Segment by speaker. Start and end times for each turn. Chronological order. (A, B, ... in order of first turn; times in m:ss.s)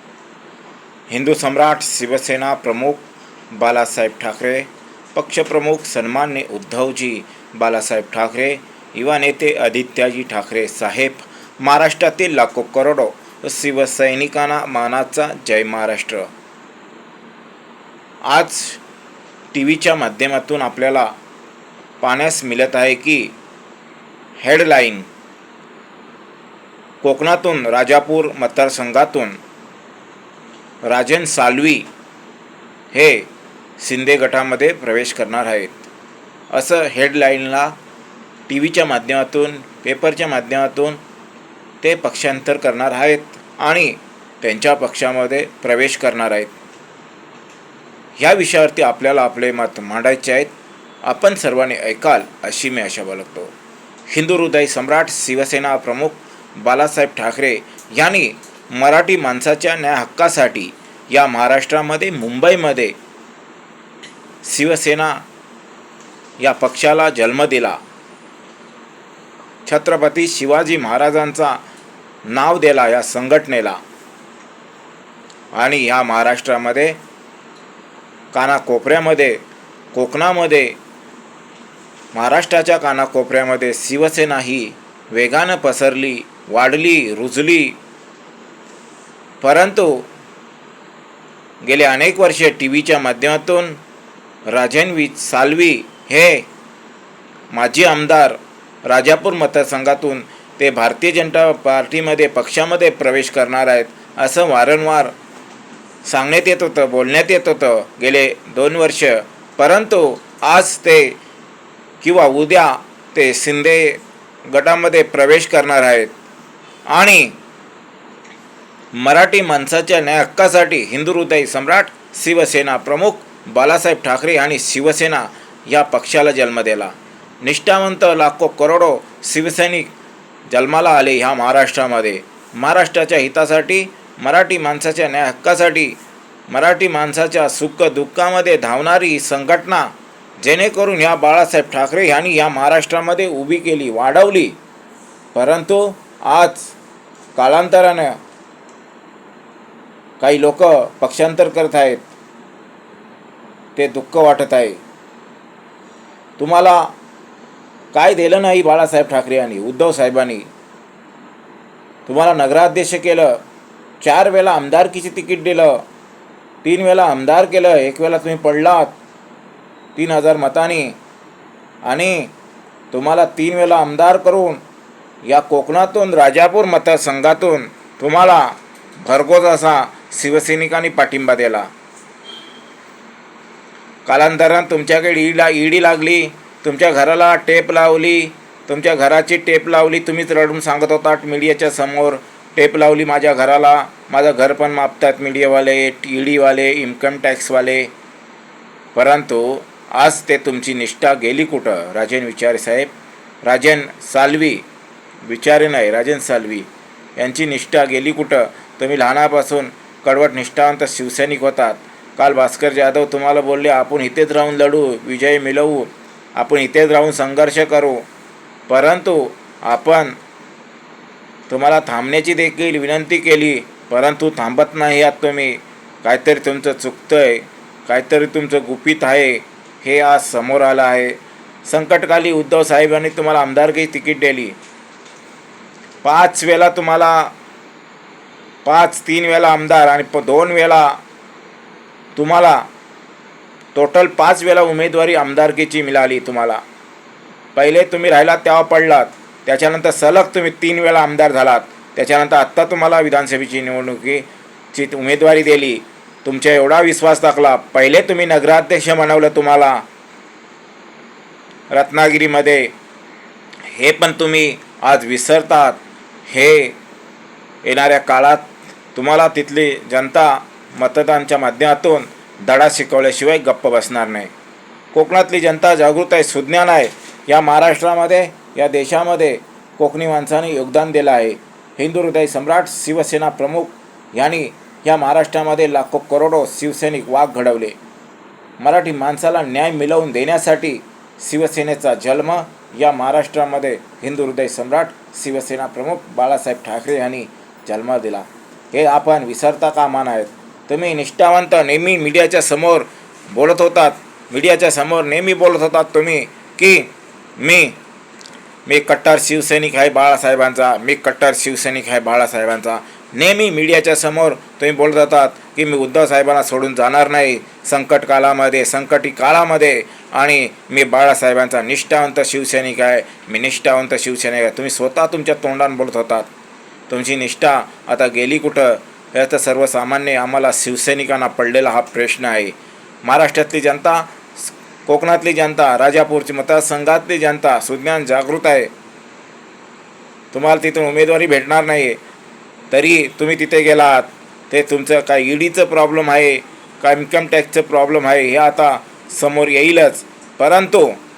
0:01.1-0:16.3 A
0:18.2-0:18.8 A
0:19.5-0:21.1 A
0:22.0-0:23.3 A
0:24.4-0:25.1 A
0:27.0-0:29.4 A
0:30.8-0:31.8 A
0:32.9-0:33.3 A
0:33.8-0:35.8 A
0:36.5-0:37.7 A
0:38.5-0:41.0 A
0:41.8-0:46.5 A
0:48.2-0:50.5 A
0:51.0-0:53.5 A
0:54.1-1:02.9 A
1:04.4-1:05.2 A
1:06.4-1:07.8 A
1:09.6-1:11.6 A
1:12.3-1:13.8 A
1:15.5-1:17.0 A
1:18.3-1:19.4 A
1:19.9-1:20.8 A
1:22.1-1:27.8 A
1:29.4-1:30.1 A
1:31.6-1:33.8 A
1:34.5-1:36.4 A
1:37.5-1:45.1 A
1:46.0-1:51.2 A
1:52.0-1:56.1 A
1:56.9-1:57.3 A
1:59.0-2:09.9 A
2:10.5-2:16.0 A
2:16.5-2:24.6 A
2:25.3-2:26.7 A
2:27.4-2:28.2 A
2:30.2-2:32.1 A
2:33.8-2:34.8 A
2:36.4-2:36.9 A
2:37.9-2:40.5 A
2:42.0-2:43.4 A
2:44.0-2:45.8 A
2:46.6-2:48.9 A
2:50.0-2:51.0 A
2:51.8-2:52.3 A
2:52.9-2:54.6 A
2:55.3-3:01.7 A
3:04.0-3:17.9 A
3:18.9-3:22.9 A
3:23.4-3:24.6 A
3:25.2-3:38.0 A
3:38.7-3:40.2 A
3:41.5-3:54.6 A
3:56.0-3:57.3 A
3:58.6-4:01.0 A
4:02.2-4:02.6 A
4:03.7-4:06.6 A
4:07.5-4:19.8 A
4:21.7-4:22.7 A
4:23.7-4:26.8 A
4:27.6-4:34.3 A
4:34.9-4:47.8 A
4:48.6-5:07.8 A
5:08.6-5:26.3 A
5:26.9-5:32.5 A
5:33.0-5:38.7 A
5:40.3-5:42.0 A
5:42.7-5:51.0 A